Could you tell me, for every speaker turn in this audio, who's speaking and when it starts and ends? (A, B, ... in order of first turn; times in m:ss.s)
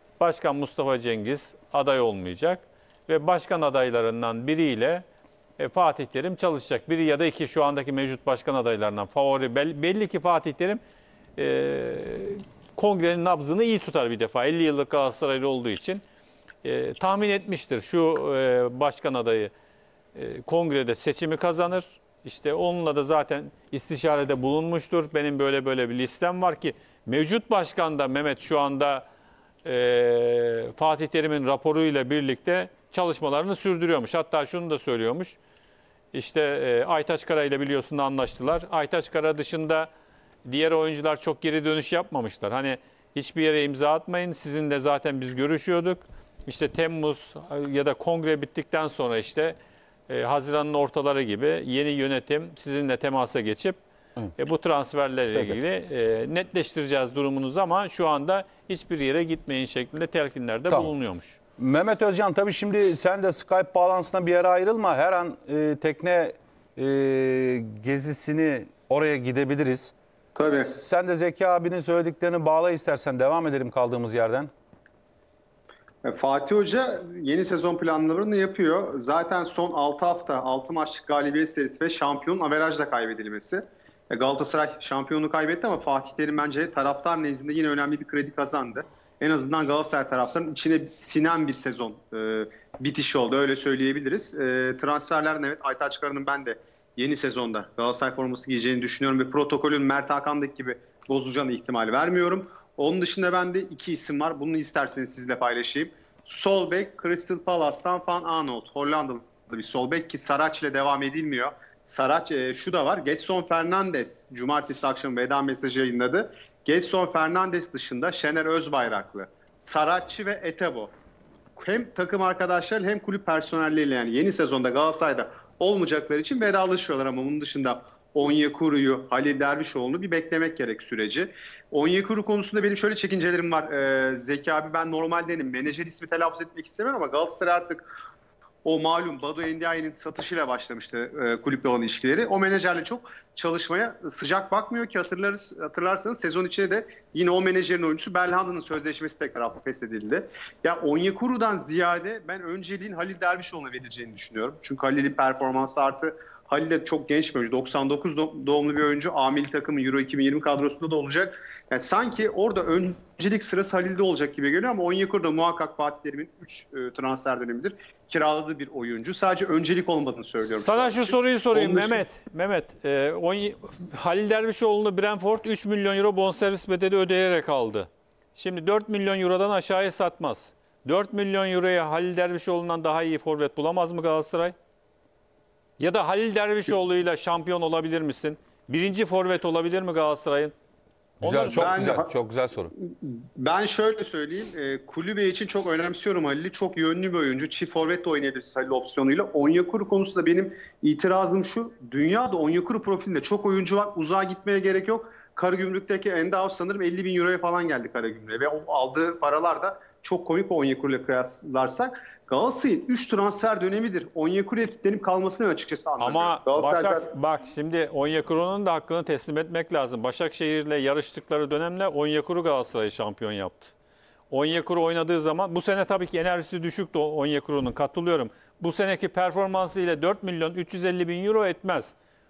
0:00.2-0:05.0 A
0:05.6-0:10.8 A
0:11.4-0:16.0 A
0:16.6-0:19.5 A
0:20.1-0:29.0 A
0:29.6-0:35.4 A
0:36.1-0:39.9 A
0:40.4-0:49.6 A
0:50.1-0:53.8 A
0:54.4-1:01.4 A
1:01.6-1:09.9 B
1:10.3-1:10.7 C
1:10.6-1:14.5 B
1:16.0-2:00.9 C
2:01.6-2:17.8 C
2:18.6-2:52.0 C
2:50.4-3:04.5 A
3:05.8-3:10.5 A
3:11.2-3:11.9 A
3:11.2-3:12.7 B
3:11.5-3:12.1 C
3:12.8-3:37.1 C
3:36.0-3:43.7 A
3:44.3-3:51.9 A